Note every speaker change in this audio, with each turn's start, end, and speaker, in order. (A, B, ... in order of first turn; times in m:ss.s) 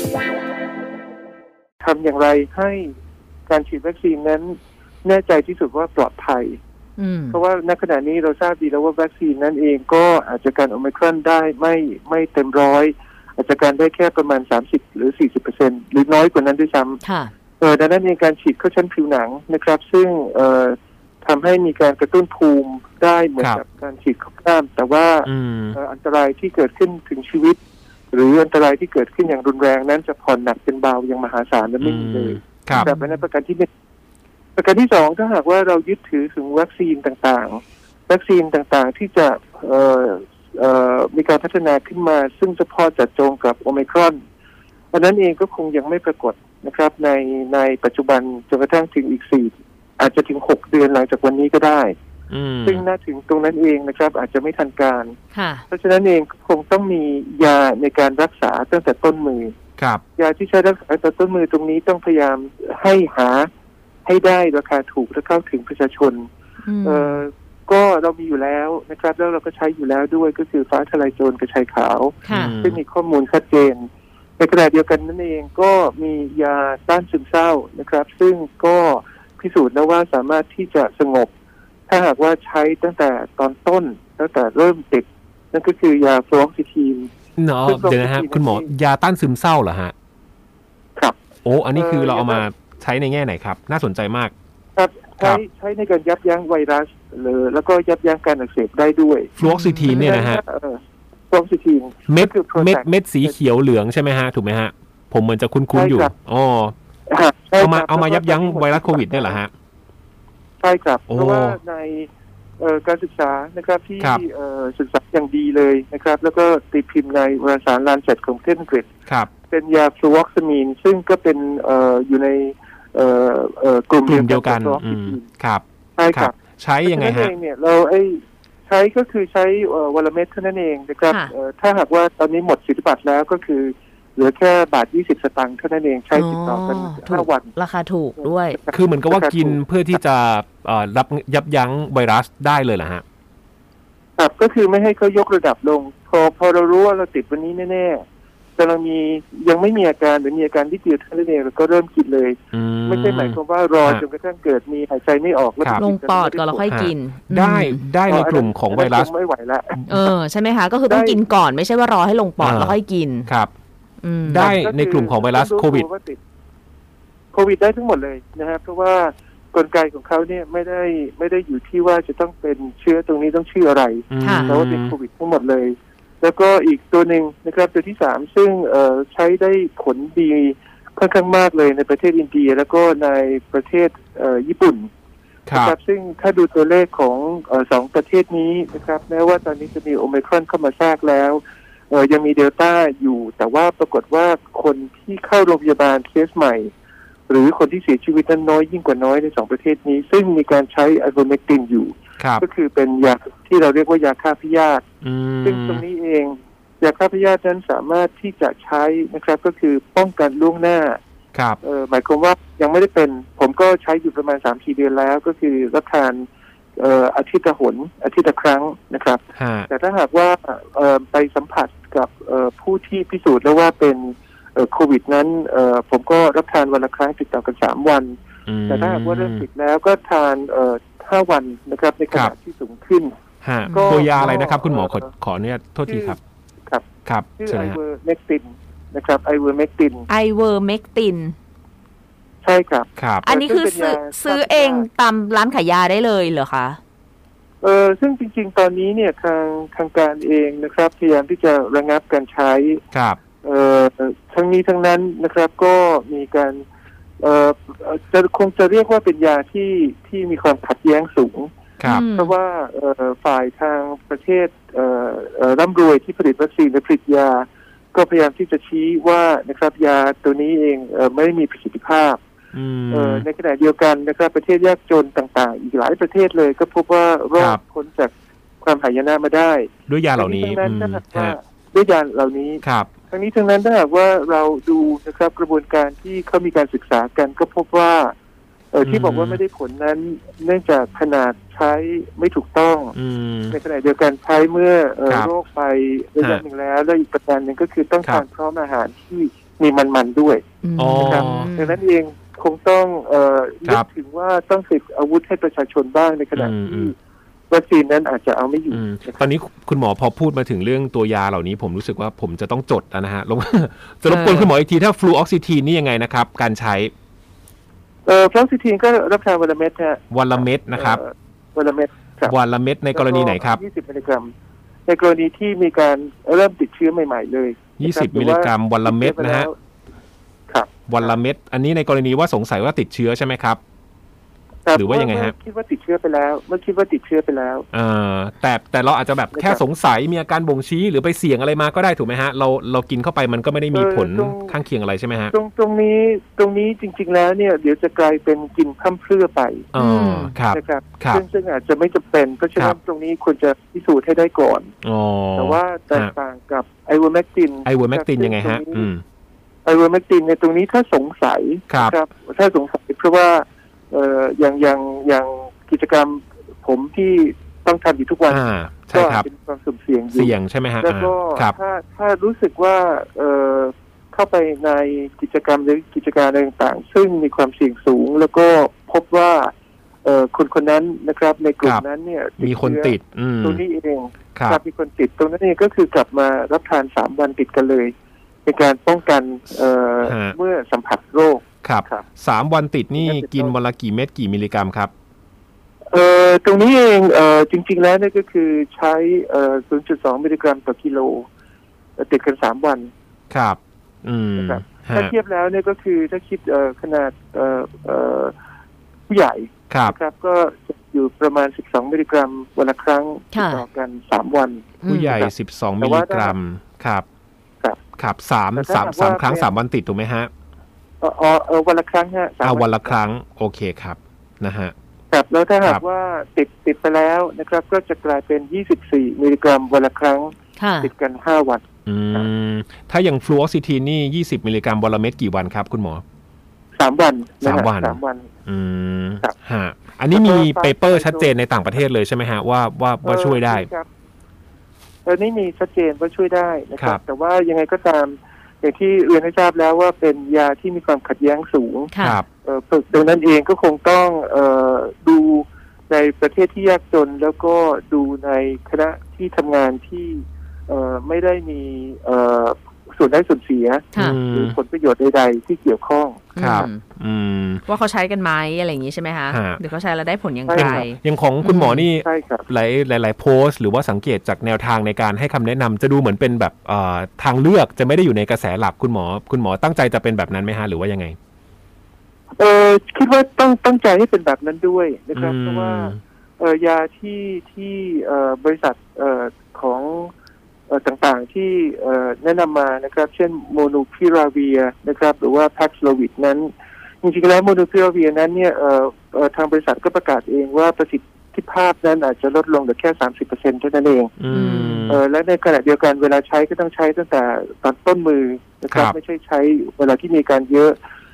0:01.8-0:02.9 A
0:03.5-0:06.6 A
0:07.0-0:07.4 B
0:07.3-0:17.0 A
0:17.0-0:17.3 B
0:17.6-0:27.6 A
0:25.2-0:25.8 C
0:28.1-0:33.7 A
0:31.8-0:32.9 C
0:32.7-0:33.2 B
0:34.6-0:44.2 A
0:44.9-0:51.9 A
0:52.3-0:52.8 C
0:52.6-0:55.2 A
0:55.3-0:55.6 B
0:55.7-0:59.5 A
1:00.2-1:03.5 A
1:04.0-1:06.3 A
1:06.6-1:07.2 B
1:06.8-1:21.3 A
1:12.2-1:12.5 B
1:12.3-1:12.8 C
1:21.9-1:27.1 A
1:27.4-1:29.9 C
1:27.6-1:28.7 A
1:31.4-1:34.3 C
1:31.7-1:32.4 A
1:34.7-1:39.3 A
1:39.4-1:40.4 C
1:39.4-1:40.2 B
1:39.9-1:43.4 A
1:42.1-1:46.7 C
1:45.7-1:46.1 A
1:47.1-1:49.4 A
1:47.6-1:49.5 C
1:50.6-1:58.9 A
1:51.1-1:51.6 C
1:59.5-2:05.3 A
2:04.0-2:07.3 C
2:06.0-2:06.3 A
2:06.8-2:17.5 A
2:16.1-2:18.6 B
2:18.2-2:19.6 A
2:18.7-2:23.0 C
2:24.2-2:28.0 A
2:28.6-2:36.7 A
2:32.5-2:34.0 C
2:35.6-2:35.8 C
2:35.8-2:37.9 B
2:36.7-2:39.1 C
2:38.1-2:39.8 A
2:39.9-2:43.3 B
2:40.9-2:41.2 A
2:42.4-2:43.5 C
2:44.0-2:44.5 B
2:44.2-2:45.9 C
2:44.4-2:46.2 A
2:47.3-3:04.9 A
2:54.1-2:54.9 C
2:54.2-2:54.5 B
3:05.5-3:05.7 C
3:05.5-3:16.7 A
3:17.3-3:24.8 A
3:22.2-3:22.4 C
3:25.0-3:25.8 C
3:25.4-3:31.0 A
3:31.3-3:31.6 C
3:31.6-3:53.1 A
3:39.4-3:39.7 C
3:48.5-3:49.4 C
3:53.4-3:56.2 C
3:53.6-3:54.3 B
3:53.7-3:55.1 A
3:55.8-3:56.8 A
3:57.0-3:57.8 C
3:57.4-4:00.1 A
4:00.1-4:01.3 B
4:02.4-4:04.9 A
4:03.0-4:03.3 C
4:03.2-4:06.8 B
4:07.6-4:12.8 A
4:12.9-4:13.2 C
4:13.4-4:16.6 A
4:17.2-4:21.5 A
4:21.8-4:22.0 C
4:21.8-4:22.3 B
4:22.1-4:32.2 A
4:32.5-4:33.3 C
4:32.9-4:48.1 A
4:39.9-4:41.4 C
4:42.6-4:42.9 C
4:48.7-4:53.0 A
4:48.8-4:49.4 C
4:53.0-4:53.6 C
4:53.5-5:00.4 A
5:00.6-5:01.8 B
5:00.8-5:01.5 C
5:01.0-5:06.9 A
5:06.3-5:06.9 C
5:07.5-5:09.3 A
5:08.7-5:16.9 C
5:14.1-5:14.5 B
5:18.0-5:22.3 A
5:20.1-5:21.0 C
5:22.2-5:23.6 C
5:22.9-5:24.3 A
5:24.9-5:29.5 A
5:27.8-5:29.5 C
5:30.5-5:31.2 A
5:30.9-5:33.6 C
5:34.6-5:37.6 A
5:34.7-5:35.3 C
5:37.7-5:45.3 C
5:39.3-5:39.6 A
5:43.7-5:44.6 A
5:45.3-5:49.7 A
5:49.7-5:51.2 C
5:49.8-5:50.3 B
5:50.5-5:54.7 A
5:54.8-5:56.1 C
5:55.4-5:58.9 A
5:57.6-5:59.0 C
5:59.6-6:19.5 A
6:01.7-6:01.9 C
6:08.3-6:09.3 C
6:10.1-6:11.6 C
6:20.0-6:27.9 A
6:22.4-6:23.6 C
6:24.3-6:24.6 C
6:28.4-6:32.0 A
6:30.0-6:30.4 C
6:31.6-6:34.9 C
6:32.9-6:33.5 A
6:35.9-6:41.3 A
6:42.0-6:42.9 A
6:43.3-6:45.1 C
6:44.4-6:48.3 A
6:49.1-6:56.4 A
6:49.7-6:49.9 C
6:53.3-6:53.6 B
6:54.8-6:55.1 B
6:54.8-6:57.0 C
6:58.0-7:00.3 C
6:58.5-6:59.6 A
7:01.0-7:03.0 A
7:02.4-7:04.7 C
7:05.1-7:12.3 A
7:10.6-7:10.9 B
7:11.8-7:16.0 C
7:16.8-7:18.3 A
7:17.4-7:23.7 C
7:20.1-7:21.3 A
7:23.0-7:23.9 A
7:25.0-7:46.6 A
7:31.9-7:32.2 B
7:32.0-7:32.2 C
7:43.9-7:44.6 C
7:46.3-7:46.8 B
7:46.4-7:47.6 C
7:47.7-7:51.8 B
7:49.3-7:49.6 C
7:50.5-7:50.8 A
7:50.5-8:01.2 C
7:52.0-7:52.5 A
8:02.4-8:10.1 A
8:05.1-8:06.0 C
8:10.7-8:16.5 A
8:17.0-8:24.1 A
8:24.2-8:25.0 C
8:24.3-8:24.9 B
8:24.9-8:30.8 A